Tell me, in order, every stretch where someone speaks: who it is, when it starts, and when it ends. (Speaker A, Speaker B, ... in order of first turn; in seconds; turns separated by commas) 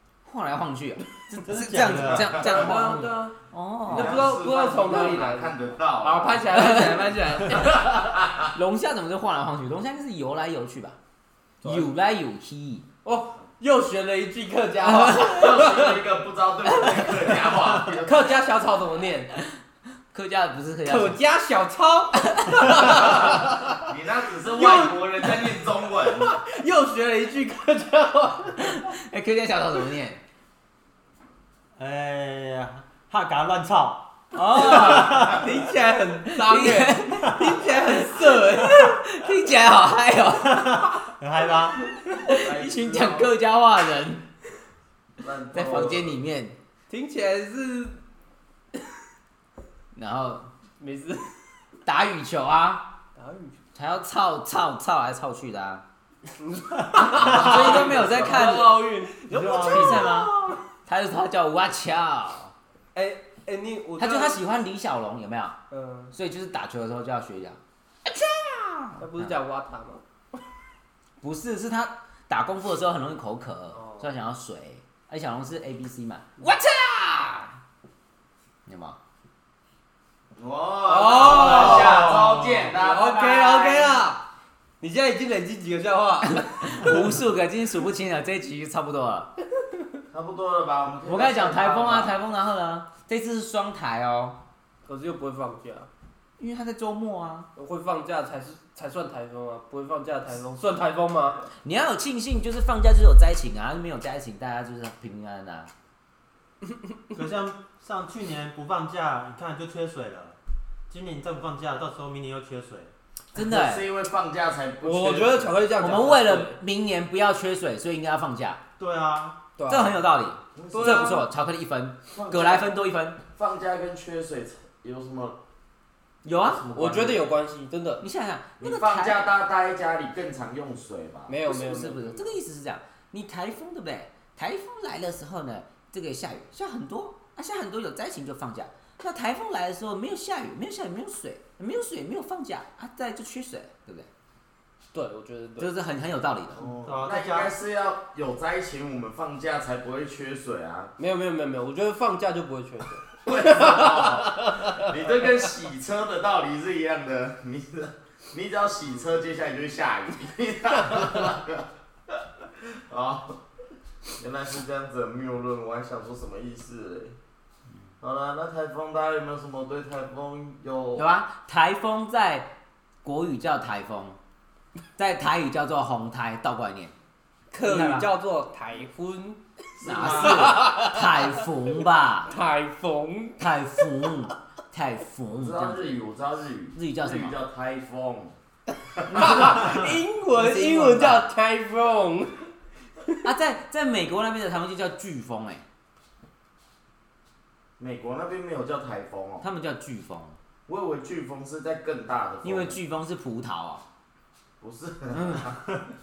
Speaker A: 0.2-4.3, Speaker B: 1.4-2.4, Speaker C: 2.1-2.7, Speaker D: 2.3-3.3, Speaker D: 3.9-7.9, Speaker C: 3.9-6.5, Speaker A: 6.5-7.8, Speaker C: 7.5-8.5, Speaker A: 8.5-11.0, Speaker C: 11.6-11.9, Speaker A: 11.6-12.9, Speaker D: 13.0-16.0, Speaker A: 14.8-15.6, Speaker C: 15.2-18.3, Speaker D: 18.0-19.3, Speaker A: 20.1-21.2, Speaker D: 20.8-23.5, Speaker A: 22.2-23.2, Speaker C: 23.7-26.3, Speaker D: 24.5-25.5, Speaker D: 26.2-28.8, Speaker A: 28.6-30.2, Speaker B: 31.8-34.1, Speaker A: 34.3-35.4, Speaker D: 34.6-39.0, Speaker B: 34.6-35.5, Speaker A: 36.2-41.0, Speaker B: 40.5-41.8, Speaker A: 42.1-44.2, Speaker C: 42.3-43.3, Speaker C: 45.2-46.2, Speaker A: 45.5-46.6, Speaker D: 46.9-48.0, Speaker A: 49.9-50.5, Speaker D: 50.8-51.4, Speaker A: 51.8-52.9, Speaker D: 53.1-53.6, Speaker A: 53.7-55.8, Speaker D: 56.4-60.6, Speaker A: 57.0-58.9, Speaker C: 57.1-59.1, Speaker B: 59.3-60.1, Speaker A: 59.5-60.3, Speaker A: 60.9-62.5, Speaker D: 62.9-64.4, Speaker A: 64.0-65.5, Speaker D: 65.7-66.1, Speaker A: 66.1-69.3, Speaker D: 69.0-70.0, Speaker A: 71.2-77.5, Speaker D: 73.8-74.0, Speaker A: 78.7-79.0, Speaker C: 80.3-84.0, Speaker D: 80.9-84.2, Speaker A: 81.3-82.1, Speaker B: 81.7-82.6, Speaker D: 84.8-87.2, Speaker A: 86.3-89.3, Speaker C: 90.1-92.2, Speaker A: 91.0-94.4, Speaker D: 94.8-95.9, Speaker A: 96.4-97.5, Speaker D: 97.5-101.4, Speaker A: 101.6-105.7, Speaker B: 107.1-110.4, Speaker B: 110.9-112.9, Speaker A: 113.3-113.8, Speaker C: 113.3-115.6, Speaker D: 114.8-116.6, Speaker A: 115.8-118.6, Speaker B: 118.8-119.4, Speaker D: 119.5-120.0, Speaker A: 119.7-123.2, Speaker C: 120.5-121.2, Speaker D: 120.7-121.2, Speaker C: 122.1-122.7, Speaker C: 123.3-125.4, Speaker A: 126.2-126.7, Speaker C: 126.4-127.2, Speaker D: 126.7-128.0, Speaker A: 128.0-129.2, Speaker C: 128.6-131.3, Speaker D: 131.3-132.4, Speaker A: 131.4-144.1, Speaker D: 144.9-145.7, Speaker A: 145.6-146.6, Speaker C: 146.6-150.9, Speaker B: 146.8-147.5, Speaker D: 151.0-154.8, Speaker C: 153.2-163.4, Speaker C: 164.2-167.2, Speaker C: 168.0-171.1, Speaker A: 170.9-172.5, Speaker A: 173.0-174.2, Speaker A: 174.9-176.9, Speaker D: 177.5-179.4, Speaker A: 177.6-178.1, Speaker C: 179.8-180.7, Speaker A: 179.8-182.3, Speaker D: 180.2-180.9, Speaker D: 182.3-183.4, Speaker A: 183.4-186.0, Speaker C: 185.3-188.3, Speaker A: 186.7-187.3, Speaker C: 189.0-189.4, Speaker A: 189.1-191.3, Speaker D: 189.1-192.5, Speaker A: 193.2-195.6, Speaker C: 197.8-199.4, Speaker A: 199.4-200.4, Speaker C: 200.7-202.8, Speaker A: 202.4-203.8, Speaker C: 204.6-205.6, Speaker A: 205.1-205.5